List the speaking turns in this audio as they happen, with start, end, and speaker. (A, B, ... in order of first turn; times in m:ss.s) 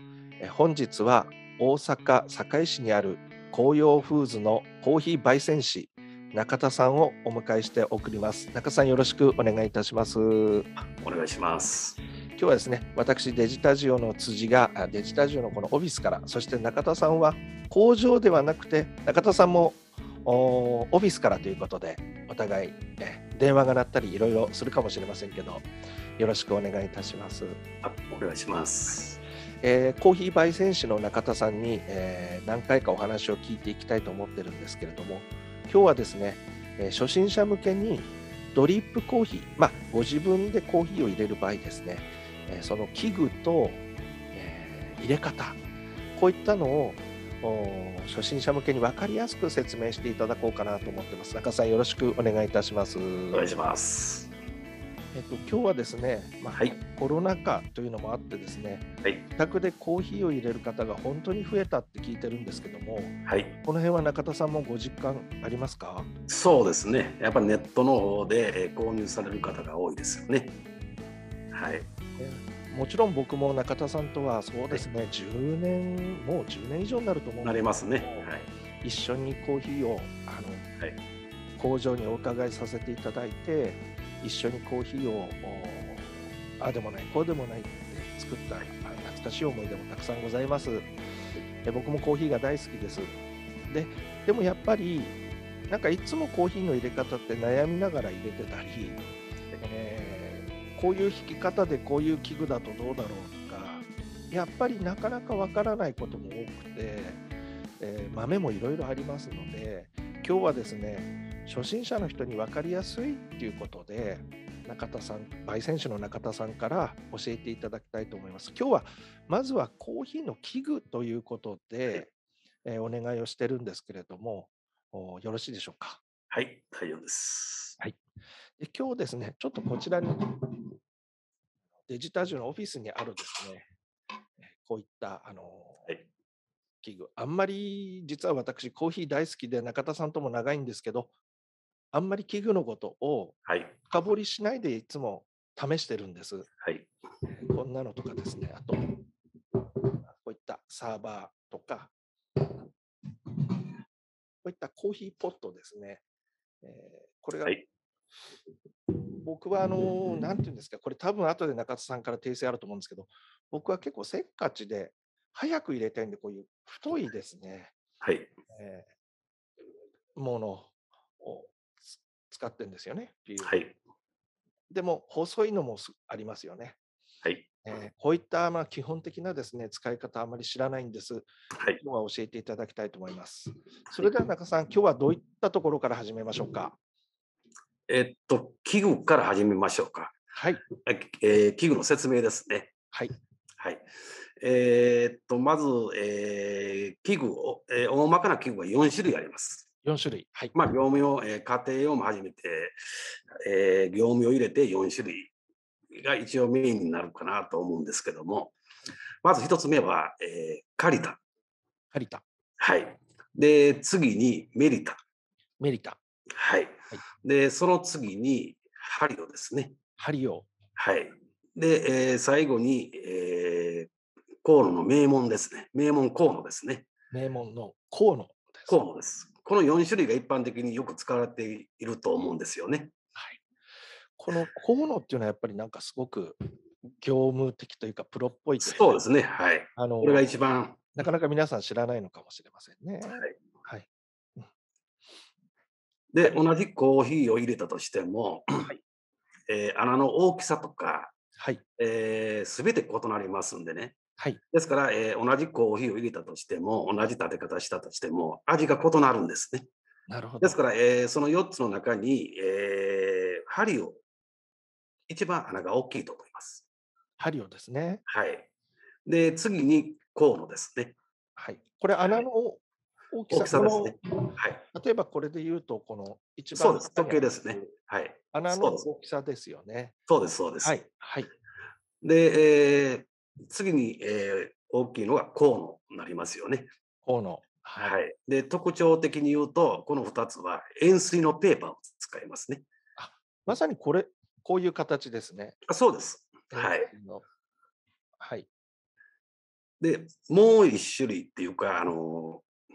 0:00.4-0:10.7 A
0:10.8-0:12.0 B
0:12.4-0:25.7 A
0:26.2-0:27.6 A
0:27.8-0:29.2 B
0:29.6-0:43.8 A
0:44.3-0:45.6 A
0:46.1-0:53.4 A
0:53.3-0:54.3 B
0:55.1-1:06.1 A
1:03.3-1:03.6 B
1:06.3-1:10.6 B
1:11.5-1:11.8 B
1:12.2-1:20.6 A
1:17.4-1:18.5 B
1:21.6-1:30.9 A
1:31.6-1:33.2 A
1:33.7-1:35.2 A
1:35.7-1:39.1 A
1:39.6-1:47.2 A
1:47.8-2:02.1 A
2:02.6-2:06.0 A
2:06.3-2:07.8 B
2:08.6-2:10.7 A
2:11.9-2:13.6 A
2:14.4-2:15.9 A
2:16.8-2:21.1 A
2:21.9-2:26.5 A
2:23.5-2:23.7 B
2:26.6-2:26.9 B
2:27.3-2:29.0 A
2:30.0-2:31.9 A
2:34.4-2:36.0 A
2:36.6-2:37.6 A
2:39.2-2:47.7 A
2:48.0-2:48.3 B
2:48.5-2:48.9 A
2:50.2-2:53.6 A
2:53.4-2:53.8 B
2:54.7-2:56.8 A
2:57.6-3:06.8 A
3:07.9-3:10.1 B
3:10.3-3:10.6 A
3:10.8-3:12.7 B
3:12.9-3:13.2 A
3:13.6-3:13.8 B
3:14.4-3:19.7 B
3:19.8-3:20.5 A
3:20.5-3:22.8 B
3:23.4-3:25.3 B
3:26.0-3:28.6 B
3:29.2-3:31.2 B
3:31.9-3:32.2 A
3:32.6-3:35.0 B
3:35.6-3:36.0 A
3:36.3-3:39.7 B
3:40.0-3:40.5 A
3:40.8-3:43.9 B
3:44.4-3:46.9 B
3:47.1-3:48.8 A
3:48.7-3:52.9 B
3:54.2-3:56.4 A
3:56.9-3:59.0 A
3:58.6-4:00.8 B
3:59.8-4:00.3 A
4:00.9-4:04.5 A
4:06.1-4:08.7 B
4:09.5-4:11.1 B
4:11.4-4:11.6 A
4:11.8-4:14.0 B
4:14.5-4:19.6 B
4:20.1-4:20.6 A
4:20.4-4:24.0 B
4:25.1-4:26.6 B
4:27.2-4:28.0 A
4:28.1-4:28.5 B
4:29.0-4:31.0 B
4:31.4-4:37.7 A
4:33.3-4:34.6 B
4:36.5-4:38.9 B
4:38.3-4:40.0 A
4:40.1-4:40.8 B
4:40.6-4:41.3 A
4:42.0-4:46.7 B
4:47.0-4:47.9 A
4:47.8-4:52.6 B
4:53.0-4:55.6 A
4:55.7-4:56.9 B
4:56.5-4:57.2 A
4:58.2-4:58.5 A
4:59.8-5:02.4 B